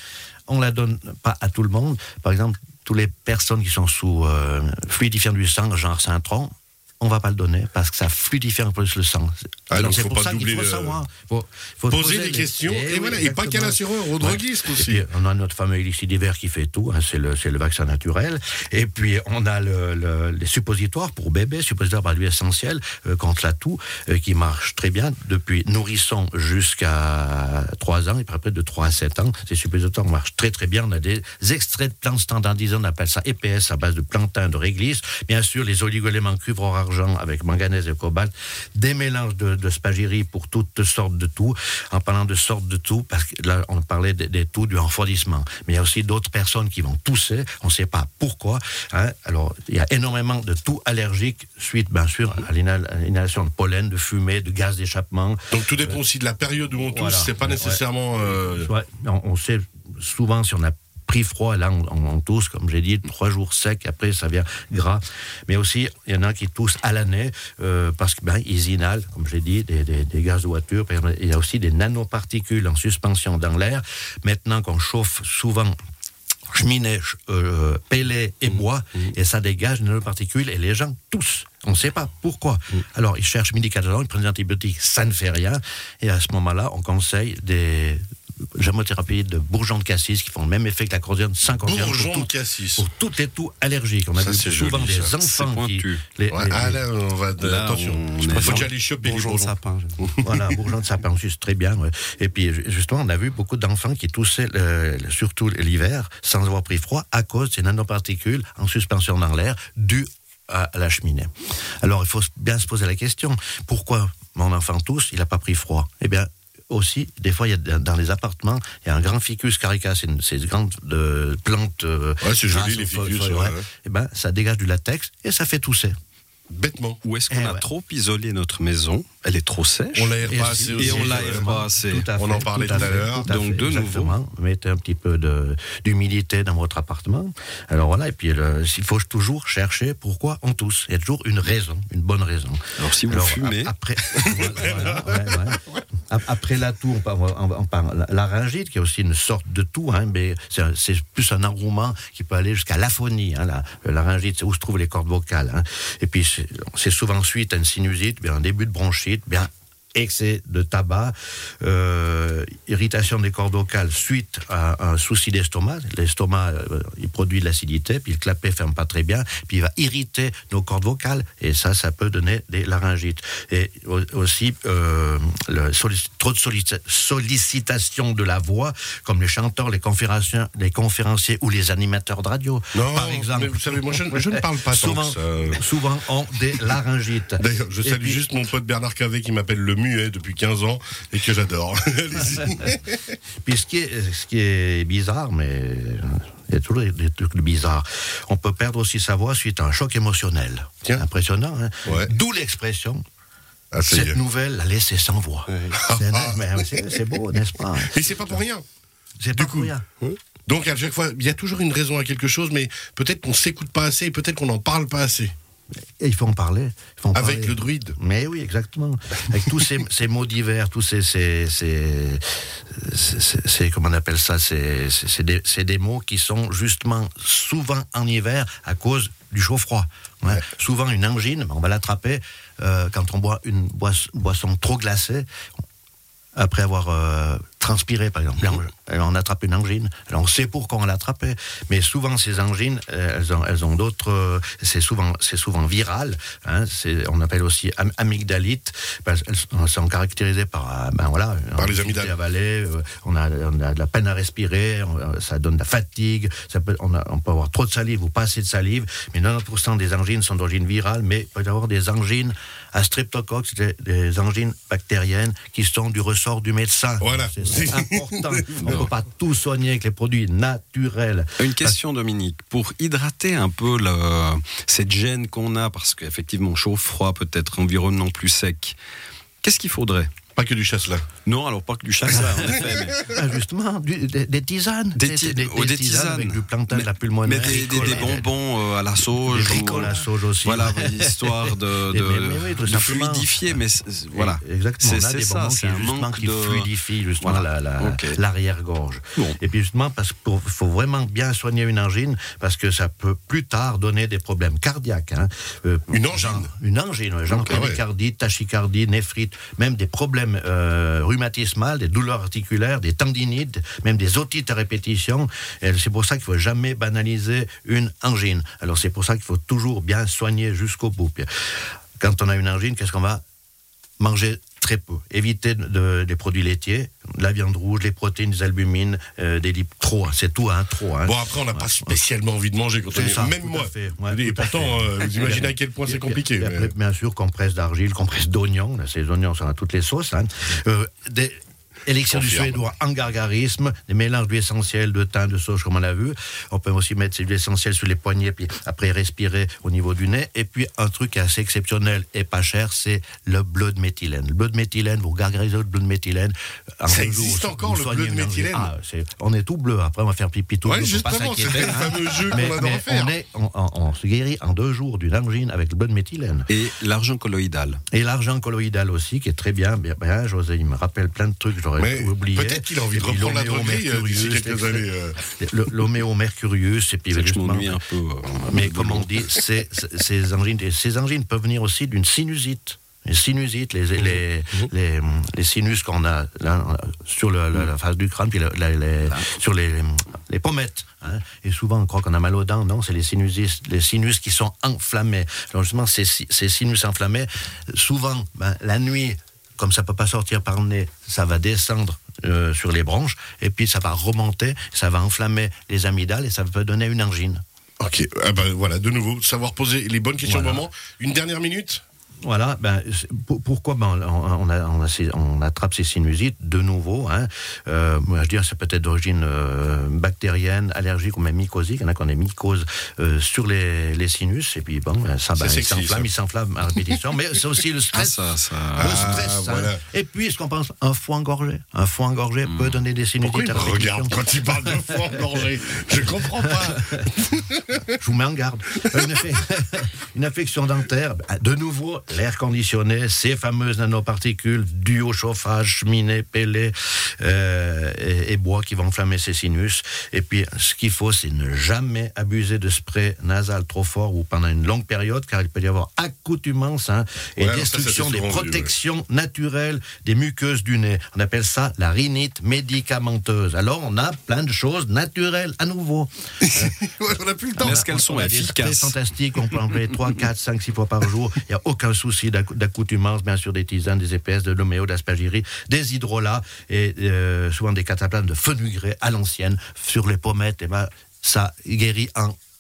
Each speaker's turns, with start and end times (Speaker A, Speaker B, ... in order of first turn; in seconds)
Speaker A: 0.5-55.9, 56.9-75.8, 76.5-88.0, 88.5-96.8, 100.2-126.0, 127.3-127.7, 130.3-188.2, 193.4-203.0, 203.9-208.4, 209.2-209.8, 216.0-235.3, 236.3-271.8, 282.1-288.3, 289.2-293.6, 294.1-321.3, 322.0-323.2, 324.0-332.0, 332.9-366.5, 367.9-377.8, 378.4-407.4, 410.2-410.7, 412.2-428.2, 428.8-434.9, 436.6-436.9, 437.9-466.6, 467.6-482.4
Speaker B: 9.7-11.0, 11.9-15.1, 55.5-58.7, 91.7-92.9, 94.2-95.2, 96.3-100.5, 122.2-123.7, 126.5-127.0, 129.9-131.5, 132.2-133.3, 144.2-145.8, 182.7-185.6, 187.4-193.2, 201.9-202.1, 203.7-204.2, 205.6-207.0, 207.8-208.7, 209.4-215.3, 217.1-218.0, 251.6-252.2, 267.0-268.9, 280.4-281.1, 305.9-306.5, 307.3-307.8, 331.0-336.7, 342.1-342.6, 356.9-358.7, 360.6-363.1, 371.8-375.2, 407.8-411.8, 425.4-426.1, 428.8-429.8, 433.2-437.8, 457.4-458.7, 466.4-467.9
Speaker C: 95.2-96.0, 97.4-100.0, 127.0-134.2, 142.8-143.7, 271.4-278.8, 279.4-280.1, 281.2-283.0, 284.9-298.2, 366.5-367.8, 377.1-379.4, 427.9-429.0, 432.5-432.8, 467.6-469.0